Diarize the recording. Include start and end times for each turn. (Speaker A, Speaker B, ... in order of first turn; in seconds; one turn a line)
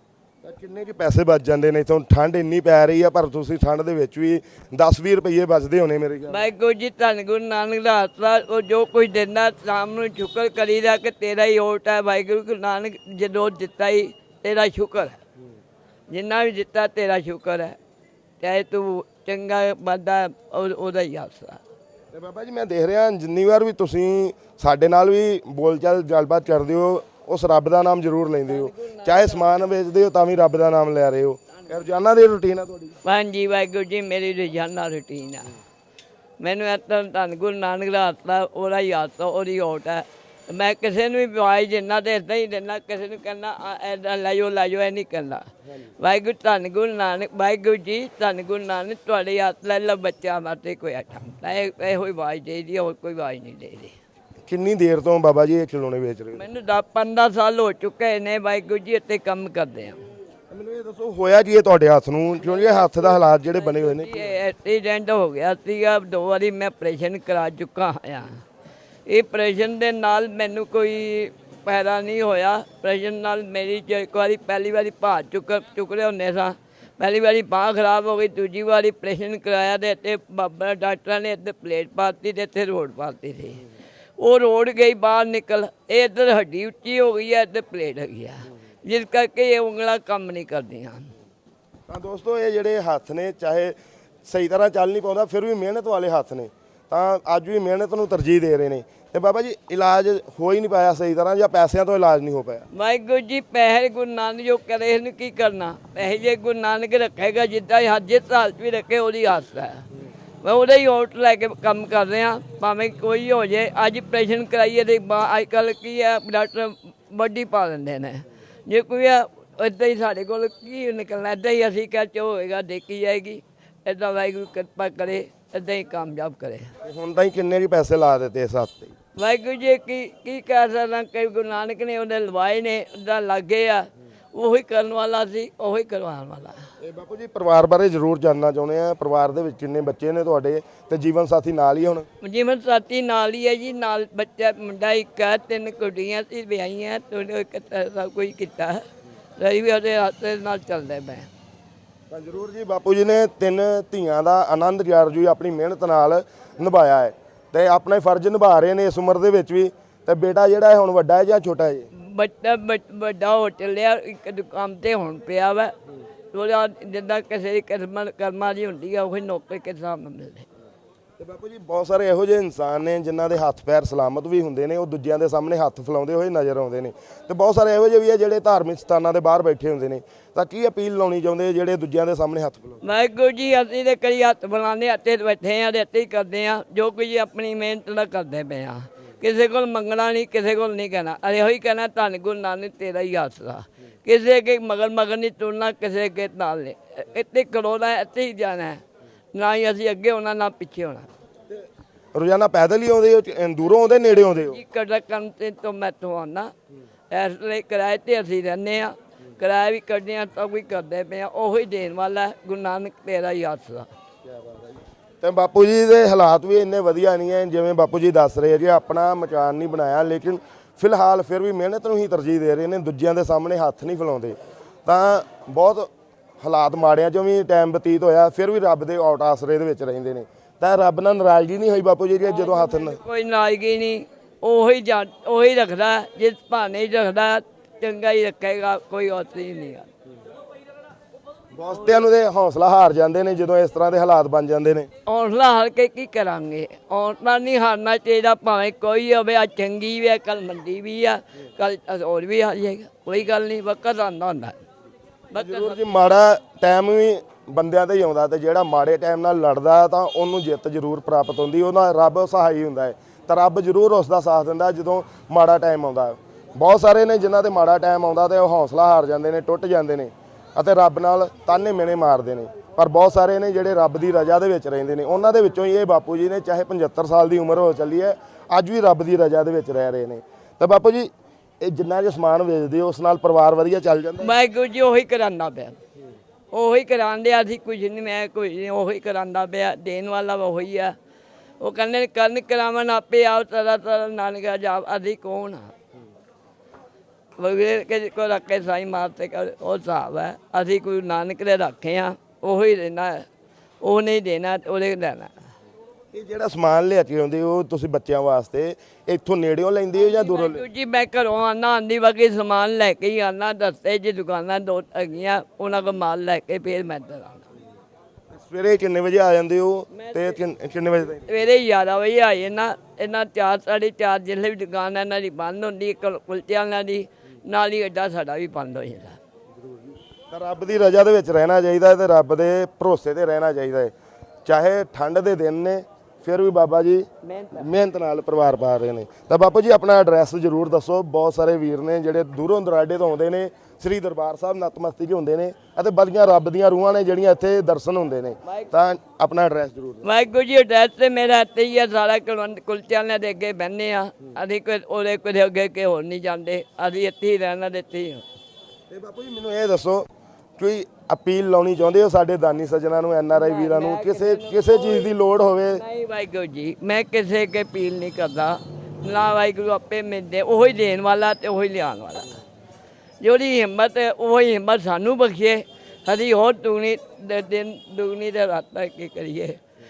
Speaker A: 0.4-6.4
Speaker B: 6.3-15.2
Speaker B: 16.1-17.8
Speaker B: 18.4-21.6
Speaker A: 22.1-33.0
Speaker B: 28.4-29.7
Speaker B: 33.0-35.5
Speaker B: 36.4-45.5
Speaker B: 46.0-53.9
Speaker A: 54.5-56.4
Speaker B: 56.3-60.0
Speaker A: 60.5-64.3
Speaker B: 62.4-68.4
Speaker B: 69.1-83.6
Speaker B: 84.2-91.1
Speaker A: 91.9-102.7
Speaker B: 102.7-109.8
Speaker B: 110.4-126.7
Speaker A: 126.8-128.9
Speaker B: 129.2-136.6
Speaker A: 136.8-142.1
Speaker B: 142.2-148.8
Speaker B: 149.4-151.3
Speaker A: 152.1-161.9
Speaker B: 161.9-165.7
Speaker B: 166.3-170.4
Speaker A: 171.2-182.8
Speaker B: 182.8-198.8
Speaker B: 199.3-201.1
Speaker A: 201.5-204.6
Speaker B: 204.1-206.5
Speaker B: 207.1-213.9
Speaker A: 214.2-225.9
Speaker A: 226.4-233.0
Speaker B: 232.2-239.9
Speaker A: 241.5-244.9
Speaker B: 241.7-242.0
Speaker B: 245.0-254.6
Speaker B: 255.3-255.9
Speaker A: 255.3-281.1
Speaker A: 281.6-284.3
Speaker B: 284.2-285.8
Speaker B: 286.5-290.9
Speaker B: 291.6-295.7
Speaker B: 297.4-303.2
Speaker B: 303.8-305.3
Speaker A: 306.1-310.7
Speaker B: 309.9-317.4
Speaker A: 318.3-321.4
Speaker B: 319.9-320.4
Speaker B: 321.1-329.2
Speaker A: 329.6-333.9
Speaker A: 334.4-350.1
Speaker B: 337.2-337.7
Speaker B: 348.5-348.7
Speaker B: 350.0-358.2
Speaker A: 358.9-365.8
Speaker B: 363.3-365.1
Speaker B: 365.7-372.3
Speaker B: 373.2-379.6